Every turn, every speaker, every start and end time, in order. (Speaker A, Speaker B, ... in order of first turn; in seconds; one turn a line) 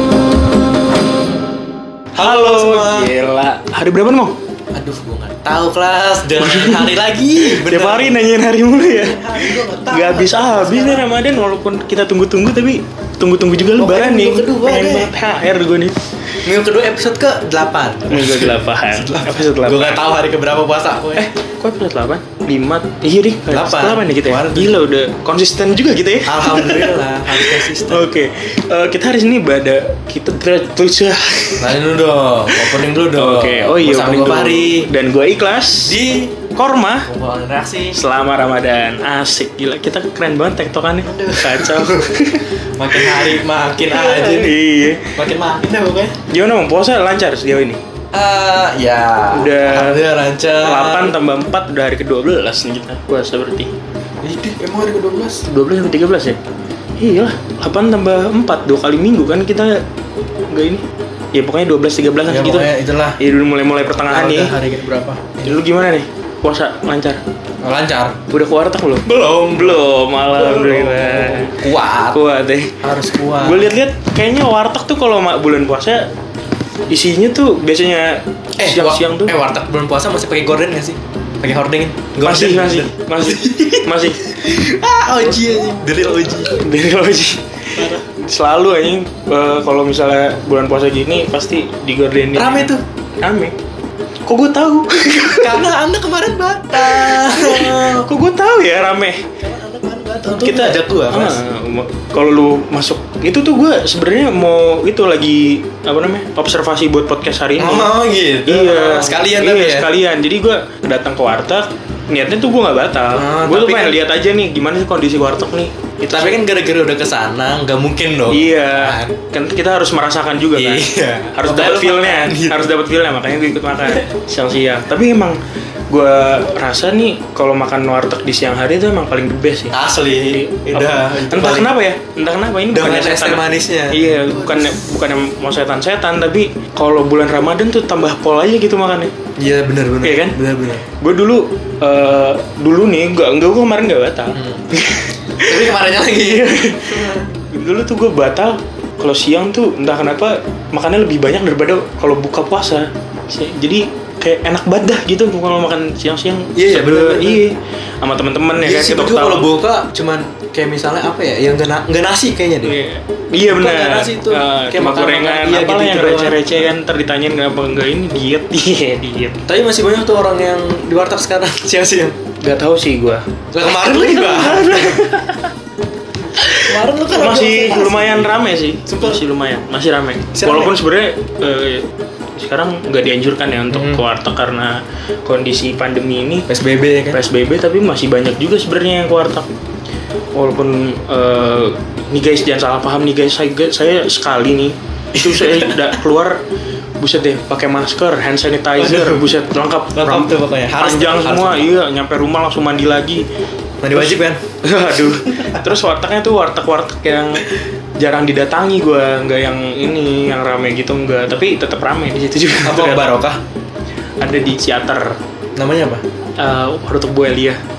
Speaker A: 2.1-3.1
Speaker B: 2.2-4.3
Speaker A: 4.7-8.2
Speaker B: 6.4-15.9
Speaker A: 8.8-11.1
Speaker A: 13.8-15.1
Speaker A: 16.4-21.3
Speaker B: 18.1-20.1
Speaker B: 21.2-31.8
Speaker A: 23.5-24.8
Speaker A: 26.3-28.2
Speaker A: 31.6-34.9
Speaker B: 32.5-36.0
Speaker A: 35.8-36.4
Speaker B: 36.5-37.1
Speaker A: 37.1-38.0
Speaker B: 37.9-45.1
Speaker A: 41.0-42.1
Speaker A: 42.8-44.6
Speaker A: 45.2-46.1
Speaker B: 46.3-47.8
Speaker A: 48.1-51.2
Speaker B: 49.3-50.0
Speaker B: 50.6-53.7
Speaker A: 54.2-55.5
Speaker B: 55.5-56.4
Speaker B: 57.0-59.8
Speaker B: 60.5-62.7
Speaker A: 62.3-63.2
Speaker B: 63.2-64.6
Speaker A: 64.1-65.6
Speaker B: 65.4-67.2
Speaker A: 67.6-68.2
Speaker B: 68.3-71.6
Speaker A: 69.1-72.2
Speaker B: 72.1-72.8
Speaker A: 72.8-73.8
Speaker B: 73.4-76.1
Speaker B: 76.9-79.4
Speaker A: 78.6-86.6
Speaker B: 82.2-84.2
Speaker B: 86.5-87.4
Speaker A: 87.8-88.0
Speaker B: 88.1-93.5
Speaker A: 92.3-92.8
Speaker B: 94.3-95.7
Speaker A: 95.4-98.1
Speaker B: 96.7-99.3
Speaker A: 99.4-101.4
Speaker B: 100.4-116.4
Speaker A: 107.6-109.9
Speaker A: 113.2-114.0
Speaker A: 116.1-119.2
Speaker B: 118.3-120.8
Speaker A: 120.5-122.7
Speaker B: 121.3-125.4
Speaker B: 125.9-139.1
Speaker A: 129.7-131.7
Speaker A: 132.7-134.7
Speaker A: 139.4-140.8
Speaker B: 140.0-140.4
Speaker B: 141.0-159.5
Speaker A: 144.3-144.7
Speaker A: 145.4-147.3
Speaker A: 156.6-157.4
Speaker A: 158.6-162.8
Speaker B: 162.6-169.4
Speaker A: 163.5-166.6
Speaker A: 169.5-172.2
Speaker B: 172.4-175.4
Speaker A: 173.5-175.1
Speaker B: 176.4-186.5
Speaker A: 176.5-178.3
Speaker A: 178.9-179.2
Speaker A: 180.3-180.8
Speaker A: 183.7-184.0
Speaker A: 186.5-187.2
Speaker B: 187.1-189.5
Speaker B: 190.3-196.4
Speaker A: 195.2-195.9
Speaker B: 197.0-203.2
Speaker A: 198.8-199.3
Speaker A: 199.9-201.7
Speaker A: 203.8-204.4
Speaker B: 203.9-213.2
Speaker A: 212.7-213.4
Speaker B: 214.2-215.1
Speaker A: 215.6-216.0
Speaker B: 216.4-217.6